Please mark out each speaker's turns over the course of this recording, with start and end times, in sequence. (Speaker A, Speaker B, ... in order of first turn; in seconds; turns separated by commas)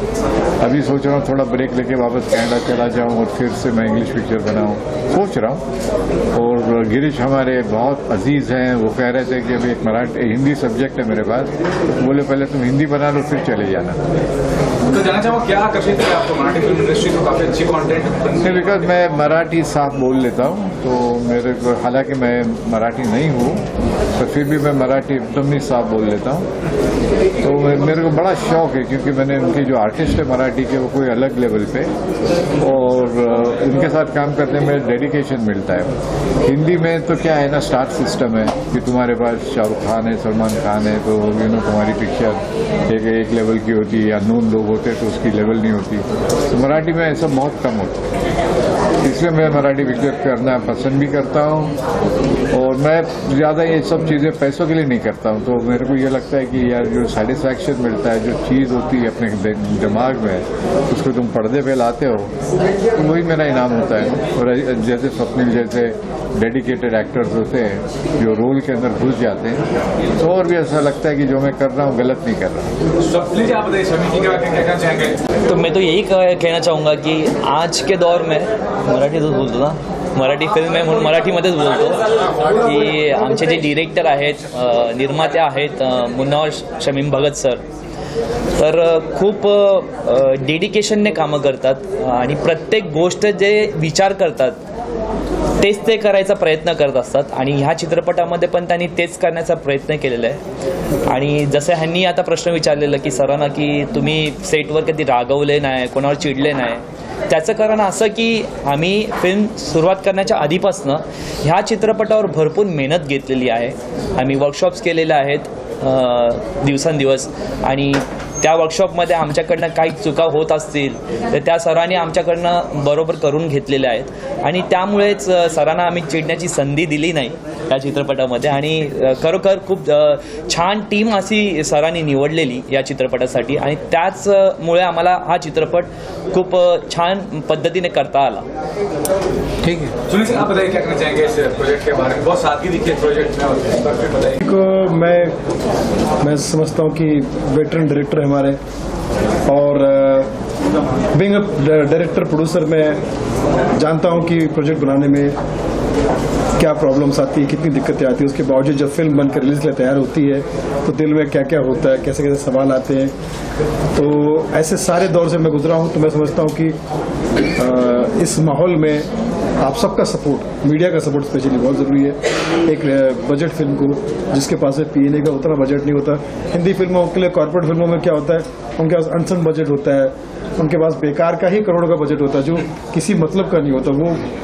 Speaker A: 0.6-5.6, Speaker A: 6.3-14.0, Speaker B: 14.9-18.5, Speaker A: 18.4-23.6, Speaker A: 24.2-26.5, Speaker A: 27.4-31.9, Speaker A: 32.6-35.9, Speaker A: 36.4-48.0, Speaker A: 49.0-51.7, Speaker A: 52.5-62.3, Speaker A: 62.9-69.6, Speaker A: 70.2-72.7, Speaker B: 73.0-75.2, Speaker C: 75.5-87.6, Speaker C: 88.6-94.6, Speaker C: 95.6-100.4, Speaker C: 101.1-138.4, Speaker A: 139.6-139.9, Speaker B: 140.1-144.4, Speaker D: 144.4-145.3, Speaker D: 146.2-148.6, Speaker D: 149.5-150.3, Speaker D: 151.1-153.0, Speaker D: 153.8-155.3, Speaker D: 156.6-163.1, Speaker D: 163.9-166.8, Speaker D: 167.6-169.1, Speaker D: 169.6-184.2